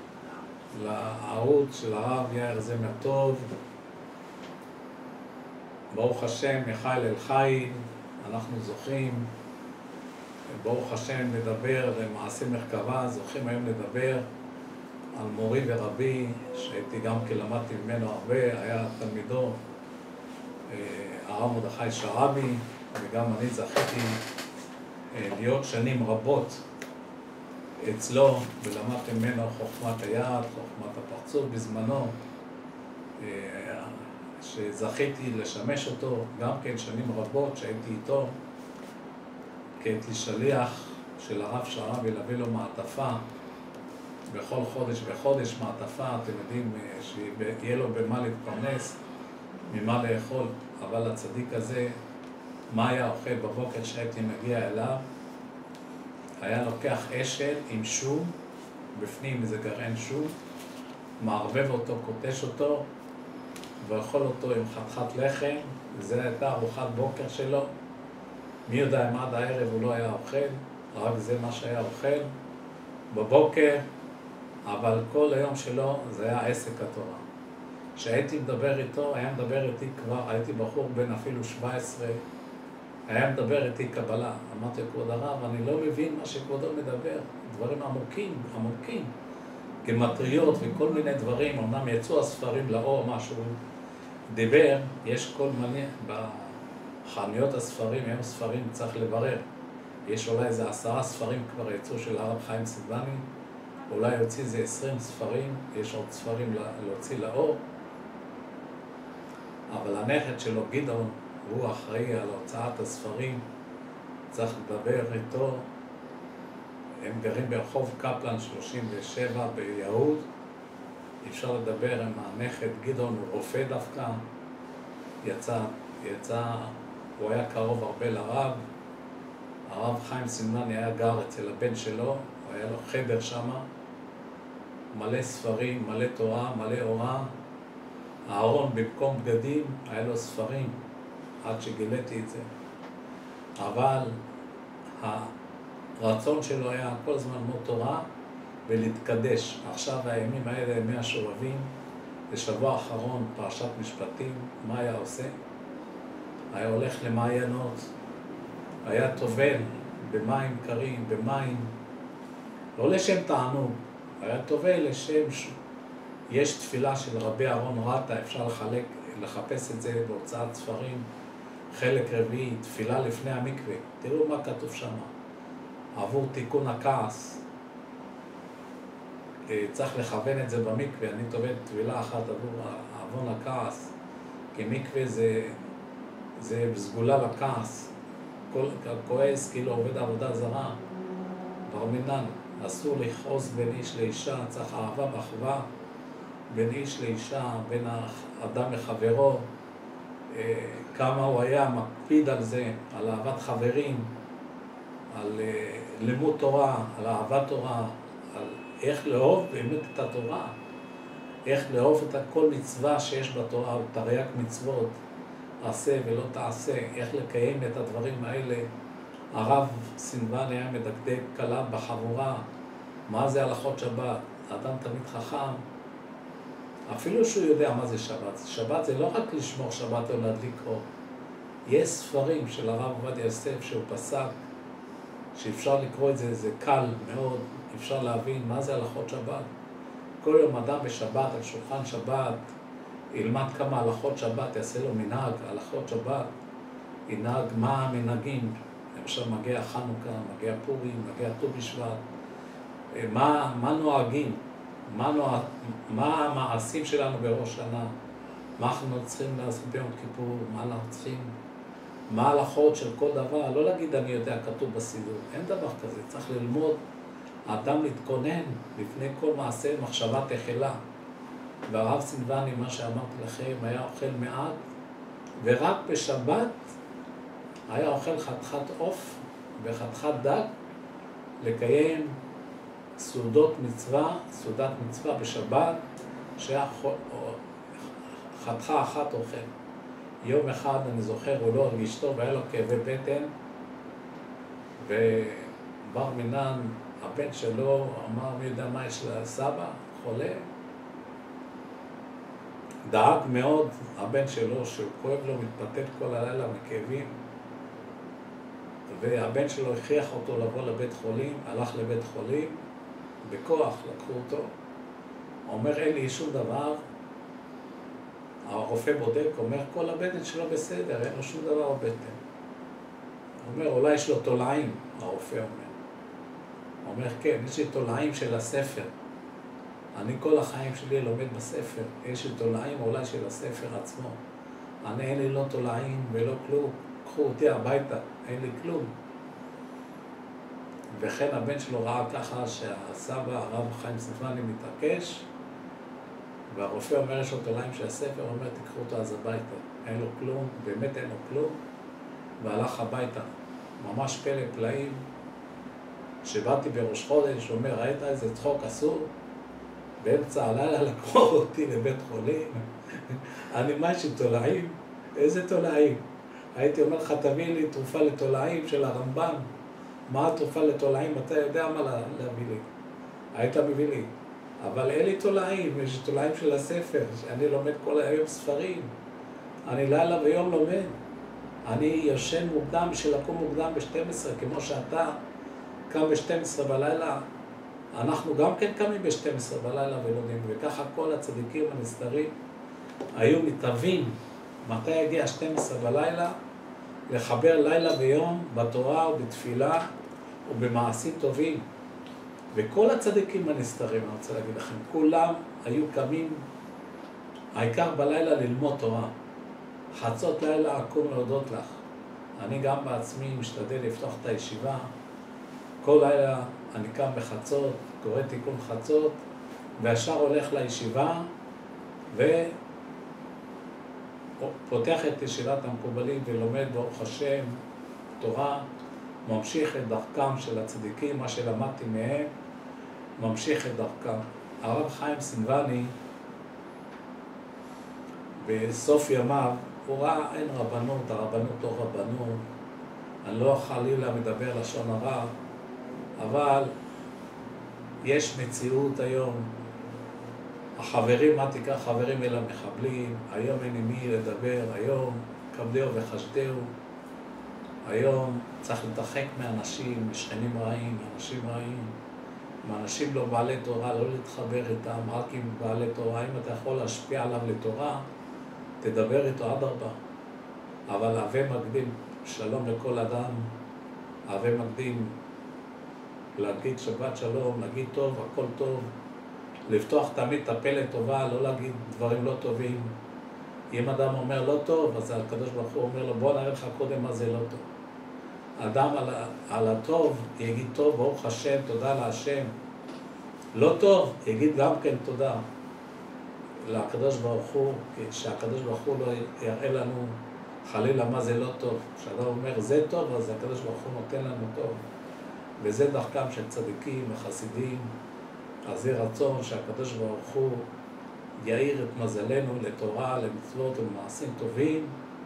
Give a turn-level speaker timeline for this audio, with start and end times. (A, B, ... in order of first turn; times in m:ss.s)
0:00.7-0:03.5 A
0:05.9-0:09.3 A
0:10.5-0:14.2 A
0:15.2-0:19.6 A
0:20.7-0:24.2 A
0:25.1-0:26.6 A
0:27.8-0:32.2 A
0:33.2-0:38.4 A
0:39.8-0:43.2 A
0:44.3-0:49.0 A
0:49.7-0:52.0 A
0:52.7-0:55.0 A
0:56.4-0:58.4 A
0:59.0-1:00.4 A
1:01.2-1:02.9 A
1:03.8-1:07.7 A
1:08.7-1:12.3 A
1:13.1-1:13.8 A
1:14.7-1:17.2 A
1:18.0-1:22.2 A
1:23.1-1:29.1 A
1:29.8-1:33.6 A
1:34.3-1:39.5 A
1:40.1-1:43.2 A
1:43.9-1:47.6 A
1:49.7-1:53.4 A
1:54.3-1:55.7 A
1:57.0-2:00.3 A
2:01.2-2:04.2 A
2:05.2-2:08.6 A
2:09.7-2:13.6 A
2:14.9-2:17.3 A
2:18.3-2:20.8 A
2:21.4-2:22.5 A
2:23.6-2:24.2 A
2:25.0-2:25.3 A
2:26.0-2:28.0 A
2:28.7-2:31.7 A
2:32.3-2:35.3 A
2:36.5-2:37.9 A
2:38.8-2:41.7 A
2:42.8-2:45.5 A
2:46.3-2:51.1 A
2:51.7-2:55.1 A
2:56.0-2:57.4 A
2:59.5-3:03.9 A
3:04.5-3:05.6 A
3:06.4-3:07.9 A
3:08.5-3:10.8 A
3:11.7-3:15.6 A
3:16.5-3:19.5 A
3:20.3-3:24.1 A
3:25.1-3:30.5 A
3:31.5-3:35.0 A
3:35.6-3:38.7 A
3:39.3-3:42.4 A
3:43.1-3:45.6 A
3:46.9-3:50.8 A
3:51.7-3:54.4 A
3:55.4-3:59.5 A
4:00.2-4:02.5 A
4:03.1-4:06.3 A
4:07.1-4:12.0 A
4:12.9-4:17.9 A
4:18.6-4:21.4 A
4:22.1-4:26.8 A
4:27.5-4:30.8 A
4:31.7-4:34.6 A
4:35.4-4:36.6 A
4:37.7-4:40.5 A
4:41.4-4:42.2 A
4:43.0-4:45.8 A
4:46.4-4:47.4 A
4:48.3-4:49.5 A
4:50.2-4:53.3 A
4:54.8-5:00.5 A
5:02.9-5:07.2 A
5:08.9-5:12.6 A
5:13.2-5:14.5 A
5:15.5-5:16.8 A
5:18.5-5:22.2 A
5:23.4-5:25.8 A
5:26.8-5:28.9 A
5:30.0-5:34.2 A
5:34.8-5:38.9 A
5:40.9-5:45.3 A
5:46.5-5:51.6 A
5:52.4-5:53.3 A
5:53.8-5:55.0 A
5:56.2-5:59.1 A
6:00.0-6:06.0 A
6:06.6-6:09.5 A
6:10.1-6:12.7 A
6:13.3-6:14.1 A
6:14.6-6:18.9 A
6:19.7-6:21.0 A
6:21.7-6:25.2 A
6:25.9-6:27.2 A
6:27.9-6:32.3 A
6:33.2-6:36.4 A
6:37.1-6:39.8 A
6:40.5-6:41.6 A
6:42.5-6:46.4 A
6:47.6-6:49.1 A
6:50.0-6:51.8 A
6:52.4-6:54.9 A
6:55.8-6:59.2 A
6:59.8-7:01.3 A
7:02.1-7:02.5 A
7:04.4-7:07.6 A
7:08.2-7:08.6 A
7:09.2-7:12.3 A
7:13.2-7:15.9 A
7:18.4-7:22.4 A
7:23.2-7:25.3 A
7:26.2-7:26.7 A
7:28.0-7:29.5 A
7:30.8-7:36.7 A
7:37.8-7:41.9 A
7:42.6-7:48.0 A
7:48.8-7:50.0 A
7:50.9-7:53.5 A
7:54.3-7:55.2 A
7:56.4-7:58.9 A
7:59.7-8:02.9 A
8:03.7-8:07.6 A
8:08.6-8:12.5 A
8:13.6-8:15.4 A
8:16.6-8:24.8 A
8:25.6-8:27.9 A
8:28.7-8:30.7 A
8:31.4-8:35.0 A